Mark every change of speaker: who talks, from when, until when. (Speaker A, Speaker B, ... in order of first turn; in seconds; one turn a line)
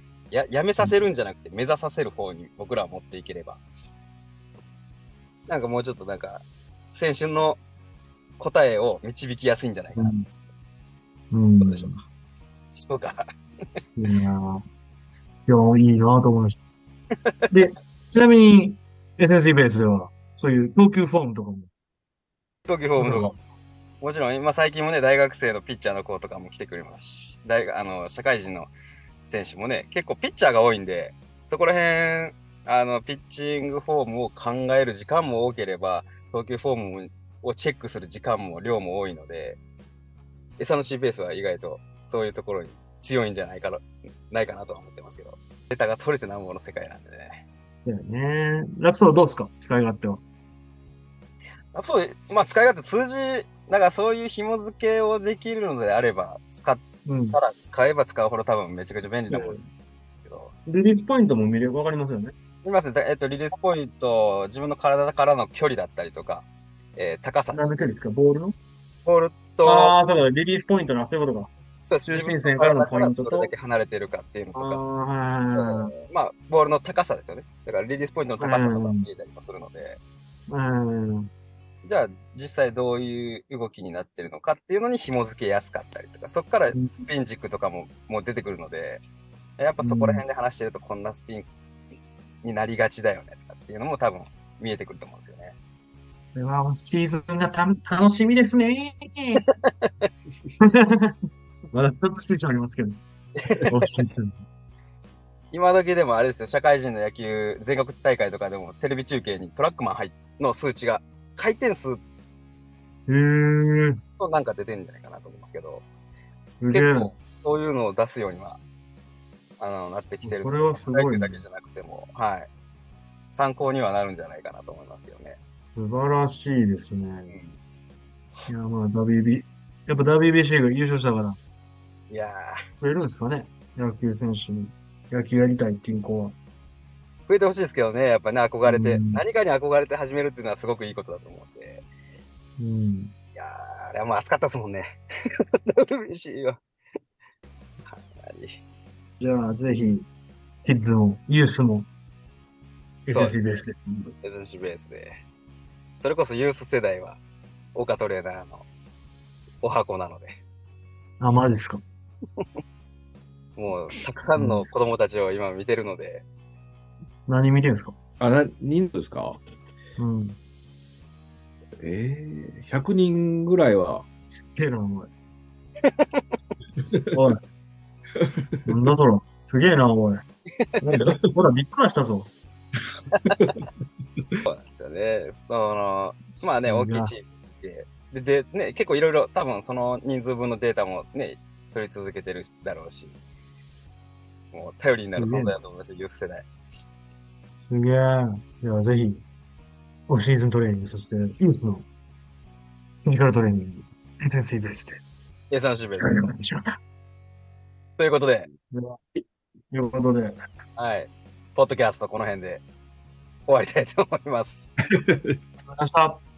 Speaker A: 0.3-3.6
Speaker A: 5.5-7.6
Speaker A: 8.4-10.3
Speaker B: 9.9-10.2
Speaker B: 11.3-12.0
Speaker A: 11.6-12.0
Speaker A: 12.7-13.8
Speaker B: 14.0-14.6
Speaker B: 15.5-16.6
Speaker A: 17.1-17.5
Speaker B: 17.5-21.7
Speaker A: 22.7-23.4
Speaker B: 23.0-23.4
Speaker A: 24.0-28.7
Speaker A: 29.2-39.6
Speaker A: 40.6-47.4
Speaker B: 47.9-50.2
Speaker A: 51.7-59.7
Speaker B: 57.0-57.4
Speaker B: 59.3-59.6
Speaker A: 60.2-60.5
Speaker B: 60.7-62.4
Speaker A: 62.6-67.9
Speaker B: 67.5-68.6
Speaker A: 69.0-70.0
Speaker B: 69.6-71.5
Speaker A: 71.8-74.8
Speaker B: 72.0-73.5
Speaker B: 74.5-75.9
Speaker A: 75.5-80.0
Speaker B: 78.4-79.1
Speaker B: 80.5-81.3
Speaker A: 81.8-89.0
Speaker B: 86.7-87.0
Speaker A: 89.6-91.5
Speaker B: 89.8-90.2
Speaker A: 92.4-95.6
Speaker B: 96.3-99.4
Speaker A: 99.4-100.1
Speaker B: 100.6-103.0
Speaker A: 103.3-104.1
Speaker B: 103.7-104.3
Speaker A: 105.5-112.0
Speaker B: 113.1-114.0
Speaker A: 114.2-115.8
Speaker B: 116.6-117.1
Speaker A: 116.7-118.6
Speaker A: 119.6-122.5
Speaker B: 120.2-121.4
Speaker A: 123.3-125.4
Speaker B: 125.6-127.3
Speaker A: 127.3-127.6
Speaker B: 128.5-131.4
Speaker A: 132.1-132.6
Speaker B: 132.8-136.4
Speaker A: 137.3-141.8
Speaker B: 138.6-139.2
Speaker B: 142.6-143.1
Speaker A: 143.3-145.0
Speaker A: 145.7-146.6
Speaker A: 147.9-148.6
Speaker B: 149.2-150.1
Speaker B: 150.6-151.9
Speaker B: 153.1-154.1
Speaker A: 153.1-153.4
Speaker A: 154.2-155.2
Speaker A: 156.0-157.2
Speaker A: 157.7-158.6
Speaker A: 159.6-160.4
Speaker B: 161.2-161.8
Speaker A: 162.4-162.6
Speaker A: 163.6-166.2
Speaker B: 164.3-164.7
Speaker B: 167.3-167.9
Speaker C: 168.2-169.4
Speaker B: 170.0-170.4
Speaker C: 171.8-174.0
Speaker B: 174.3-175.1
Speaker A: 175.8-176.3
Speaker B: 177.1-177.4
Speaker C: 178.2-178.8
Speaker B: 178.7-180.2
Speaker A: 180.5-180.9
Speaker B: 180.8-182.3
Speaker A: 183.1-183.6
Speaker A: 184.4-193.2
Speaker B: 186.2-187.1
Speaker A: 194.5-196.5
Speaker B: 195.0-195.5
Speaker B: 197.6-199.2
Speaker B: 200.1-201.9
Speaker B: 203.0-205.0
Speaker A: 205.5-206.3
Speaker B: 205.9-206.8
Speaker A: 208.0-208.5
Speaker B: 208.7-210.4
Speaker A: 210.8-212.6
Speaker A: 213.5-214.7
Speaker C: 215.0-215.4
Speaker B: 215.7-216.2